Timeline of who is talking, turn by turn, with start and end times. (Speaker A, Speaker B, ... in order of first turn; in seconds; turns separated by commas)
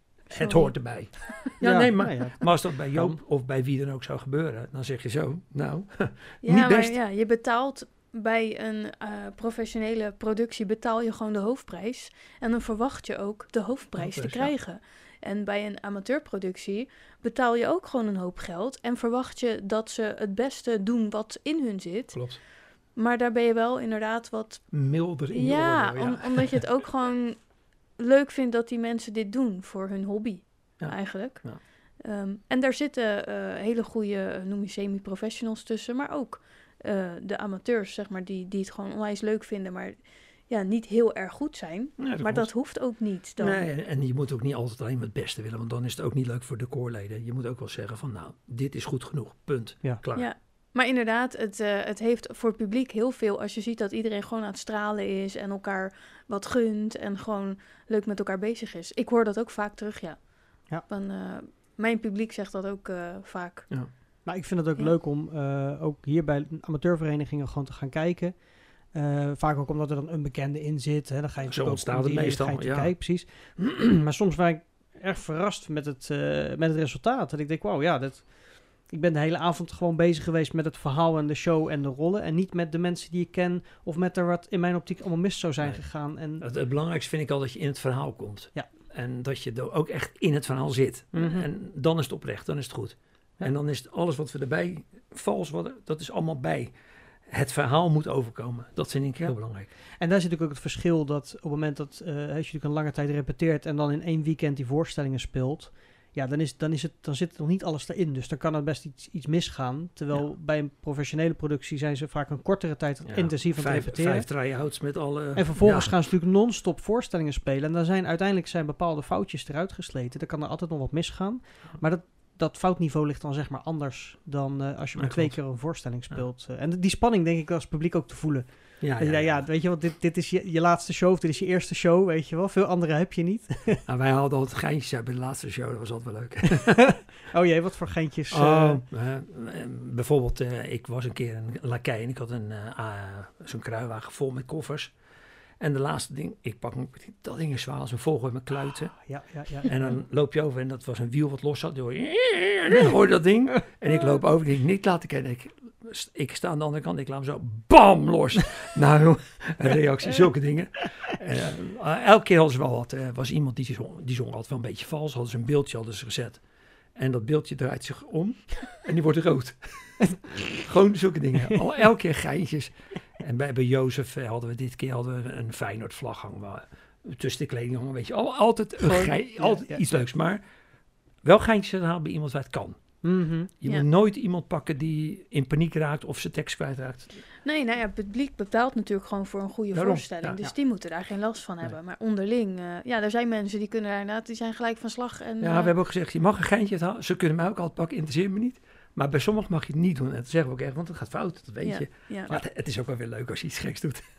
Speaker A: 0.3-1.5, Speaker B: 0.3-7.0, Speaker C: 1.6-3.2, Speaker A: 6.4-22.3, Speaker B: 13.9-14.5, Speaker B: 22.1-22.4, Speaker A: 22.9-24.7, Speaker B: 24.7-26.6, Speaker A: 25.3-27.4, Speaker A: 28.0-43.6, Speaker B: 30.8-31.6, Speaker B: 42.0-42.5, Speaker B: 43.4-50.3, Speaker A: 50.1-63.8, Speaker C: 64.2-86.5, Speaker B: 71.5-72.9, Speaker B: 86.4-96.7, Speaker C: 91.1-91.5, Speaker B: 97.3-99.7, Speaker C: 100.0-114.3, Speaker B: 113.1-116.0, Speaker C: 115.3-133.8, Speaker B: 125.0-125.5, Speaker B: 128.8-129.5, Speaker B: 133.8-137.0, Speaker C: 136.6-138.8, Speaker B: 138.3-144.9, Speaker B: 145.6-166.4, Speaker C: 148.9-150.0, Speaker B: 166.9-180.4, Speaker C: 178.8-179.8, Speaker B: 181.2-182.8, Speaker C: 183.0-183.5, Speaker B: 183.6-187.1, Speaker A: 187.4-195.7, Speaker B: 189.7-190.4, Speaker B: 195.4-204.0, Speaker A: 201.6-202.3